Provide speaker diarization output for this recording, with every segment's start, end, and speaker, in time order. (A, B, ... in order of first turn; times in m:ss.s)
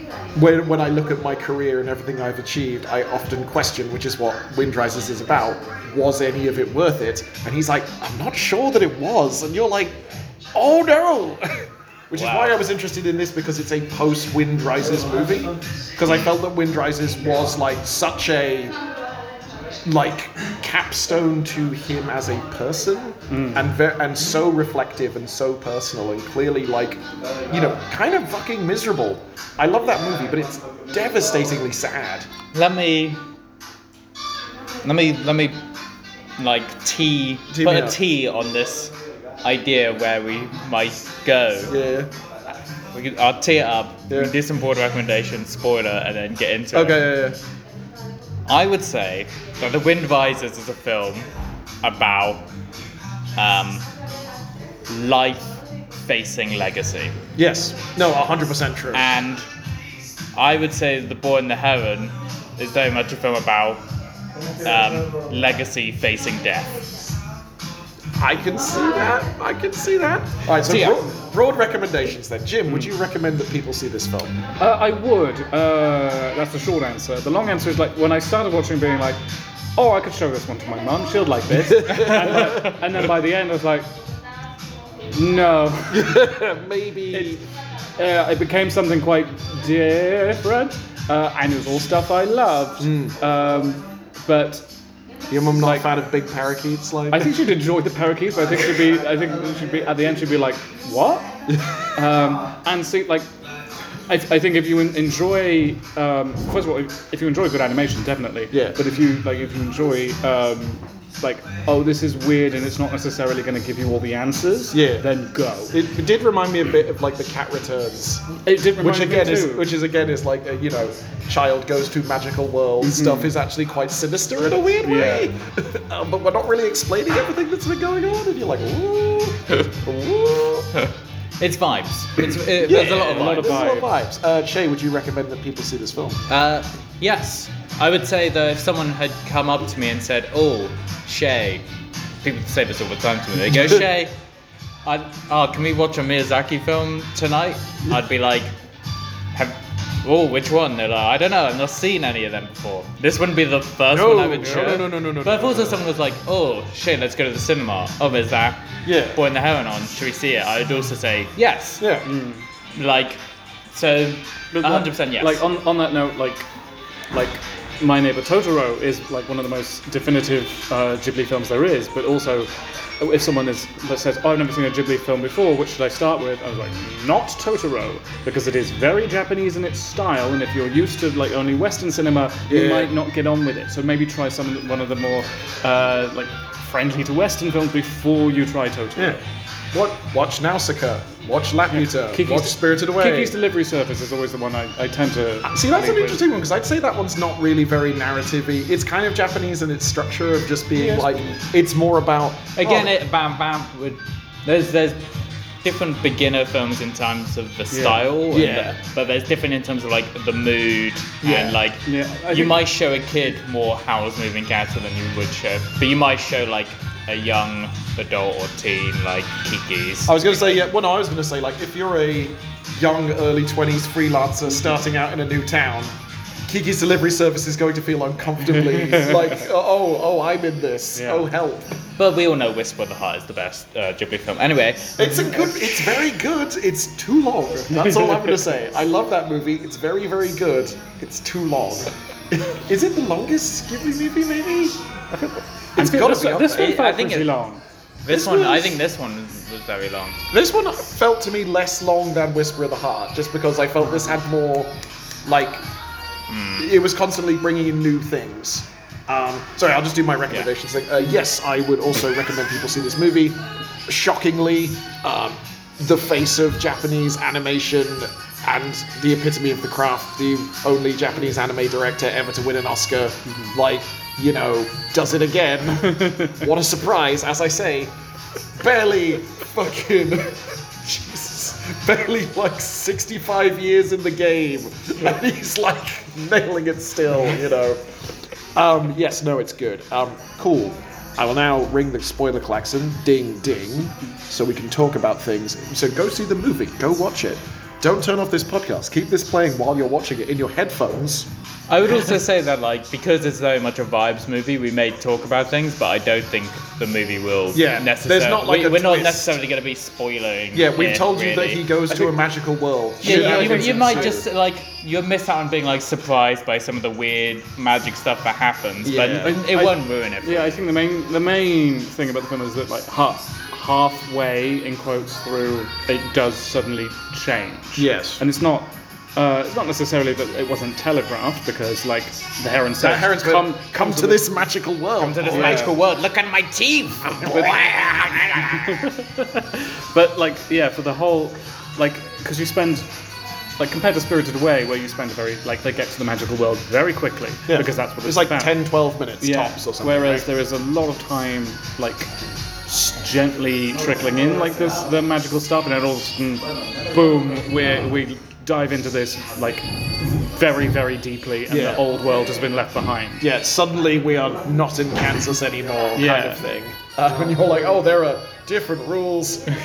0:00.3-0:10.0 A
0:10.5-0:18.8 A
0:12.1-0:12.6 B
0:16.0-0:16.3 B
0:19.8-0:32.3 A
0:23.3-0:23.7 C
0:32.5-0:33.2 B
0:34.8-0:35.6 B
0:36.4-0:41.7 B
0:37.5-0:38.0 A
0:41.7-0:42.1 A
0:42.9-0:47.1 B
0:46.7-0:47.4 A
0:48.5-0:51.3 B
0:51.8-0:52.5 B
0:53.4-0:53.8 B
0:54.9-0:55.5 B
0:56.0-0:57.2 B
0:57.3-0:59.1 A
0:58.9-0:59.4 B
1:00.3-1:03.8 B
1:04.6-1:06.8 B
1:08.2-1:14.3 A
1:10.6-1:11.0 B
1:12.7-1:12.9 C
1:14.6-1:19.2 C
1:19.8-1:23.9 C
1:21.5-1:22.8 A
1:25.1-1:26.2 C
1:25.9-1:27.4 A
1:27.1-1:27.4 C
1:28.0-1:34.7 C
1:32.8-1:33.2 A
1:35.3-1:37.4 A
1:37.1-1:41.3 C
1:41.5-1:41.7 A
1:42.0-1:43.3 C
1:44.1-1:55.8 C
1:48.5-1:48.8 A
1:54.7-1:55.1 A
1:55.7-2:10.7 A
1:58.4-1:59.7 C
2:02.8-2:03.3 C
2:04.8-2:05.3 C
2:11.4-2:13.6 B
2:12.6-2:16.2 A
2:12.7-2:13.9 C
2:16.3-2:21.6 B
2:22.2-2:24.1 B
2:24.8-2:28.5 B
2:29.3-2:41.9 B
2:33.9-2:35.8 A
2:34.5-2:34.8 C
2:38.8-2:39.2 A
2:41.8-2:42.1 A
2:42.0-2:42.4 C
2:42.8-2:43.2 B
2:43.7-2:45.4 B
2:44.5-2:46.5 C
2:47.1-3:09.2 C
3:02.5-3:02.9 A
3:09.7-3:13.3 A
3:11.7-3:16.2 C
3:15.4-3:22.9 A
3:20.8-3:21.2 C
3:22.6-3:25.0 B
3:25.6-3:40.6 B
3:27.7-3:28.1 C
3:28.3-3:28.8 A
3:31.2-3:31.6 A
3:31.8-3:32.6 C
3:40.0-3:45.9 A
3:46.4-3:51.7 A
3:48.5-3:49.4 C
3:51.0-3:51.3 C
3:52.0-3:55.0 B
3:55.0-4:04.8 A
3:57.7-3:58.4 C
4:05.1-4:07.6 C
4:05.8-4:06.8 A
4:06.5-4:07.3 B
4:08.0-4:10.2 B
4:08.1-4:08.8 A
4:10.3-4:14.7 A
4:15.2-4:15.6 A
4:16.3-4:16.7 B
4:16.6-4:37.9 A
4:33.3-4:33.5 C
4:35.8-4:36.4 C
4:38.6-4:47.8 A
4:48.5-5:01.3 A
5:01.7-5:11.7 B
5:07.5-5:09.4 A
5:10.5-5:14.2 A
5:11.9-5:12.2 C
5:13.0-5:14.1 C
5:13.0-5:20.5 B
5:18.8-5:19.4 A
5:19.4-5:34.3 C
5:27.8-5:28.2 A
5:32.8-5:35.7 A
5:35.0-5:38.8 B
5:35.3-5:35.7 C
5:37.1-5:37.8 A
5:38.5-5:42.9 C
5:43.6-5:48.6 C
5:47.5-5:50.3 A
5:49.2-5:52.1 C
5:52.6-6:03.3 C
6:01.5-6:01.8 A
6:03.2-6:09.5 A
6:06.0-6:06.4 C